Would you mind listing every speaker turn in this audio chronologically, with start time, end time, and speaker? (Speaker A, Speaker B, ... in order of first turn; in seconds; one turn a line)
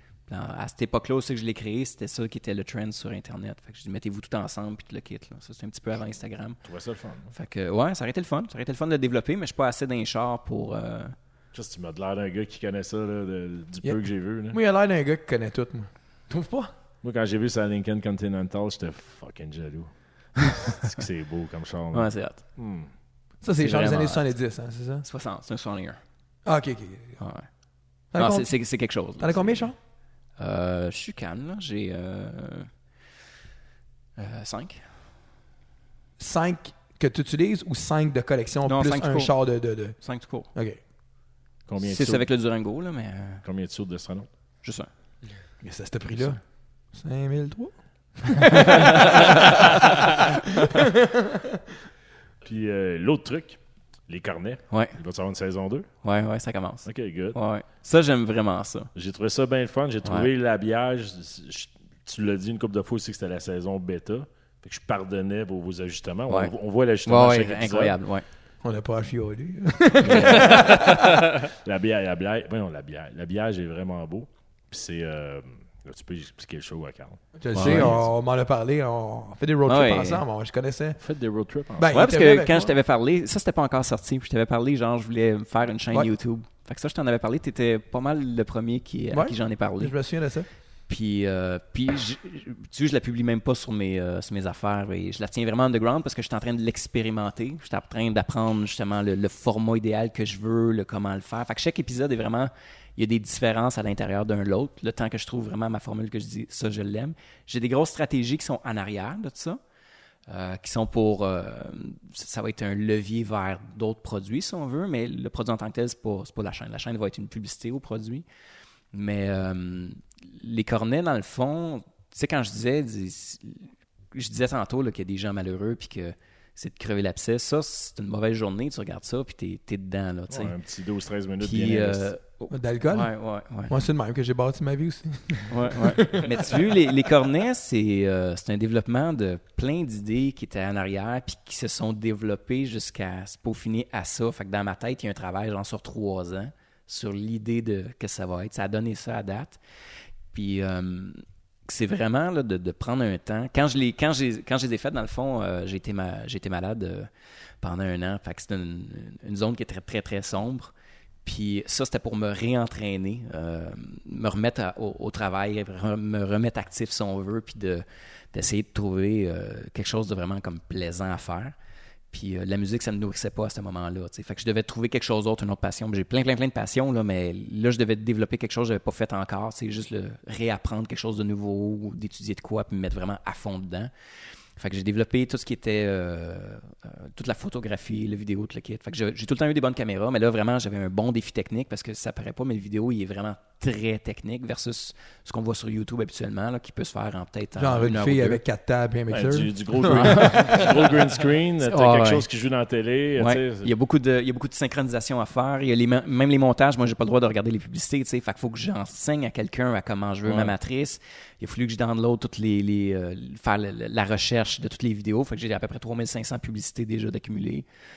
Speaker A: 0.3-6.6
Speaker B: 6.6-7.3
Speaker A: 7.3-11.2
Speaker B: 11.5-14.6
Speaker C: 13.8-16.7
Speaker B: 17.0-22.9
Speaker A: 21.9-22.4
Speaker C: 23.4-25.1
Speaker A: 23.6-24.2
Speaker A: 25.0-26.0
Speaker C: 26.4-27.2
Speaker A: 27.2-27.5
Speaker C: 28.1-29.8
Speaker A: 28.1-29.7
Speaker A: 30.4-32.7
Speaker A: 34.2-34.8
Speaker C: 36.2-40.8
Speaker A: 38.7-39.4
Speaker A: 40.0-40.5
Speaker B: 41.7-42.3
Speaker A: 41.8-43.4
Speaker B: 43.4-44.3
Speaker A: 44.6-44.9
Speaker C: 45.6-46.4
Speaker C: 46.9-49.4
Speaker C: 50.7-51.6
Speaker B: 52.4-55.9
Speaker A: 56.0-58.9
Speaker B: 56.9-57.4
Speaker B: 59.0-68.0
Speaker A: 67.1-68.2
Speaker C: 68.6-71.2
Speaker B: 70.0-78.1
Speaker C: 77.4-81.0
Speaker A: 77.6-77.9
Speaker A: 79.7-80.2
Speaker B: 81.0-82.0
Speaker C: 81.8-82.7
Speaker A: 81.9-89.9
Speaker C: 89.1-90.5
Speaker A: 90.9-109.6
Speaker A: 110.3-118.2
Speaker A: 118.9-130.5
Speaker B: 130.3-132.1
Speaker A: 131.4-133.7
Speaker C: 132.5-133.2
Speaker C: 133.7-136.5
Speaker A: 135.5-149.6
Speaker A: 150.3-157.1
Speaker A: 157.6-160.7
Speaker A: 161.2-171.6
Speaker A: 172.1-183.9
Speaker A: 184.6-198.4
Speaker C: 197.6-200.6
Speaker B: 199.1-203.7
Speaker A: 199.9-200.7
Speaker A: 201.6-202.2
Speaker A: 203.2-217.7
Speaker B: 210.3-210.5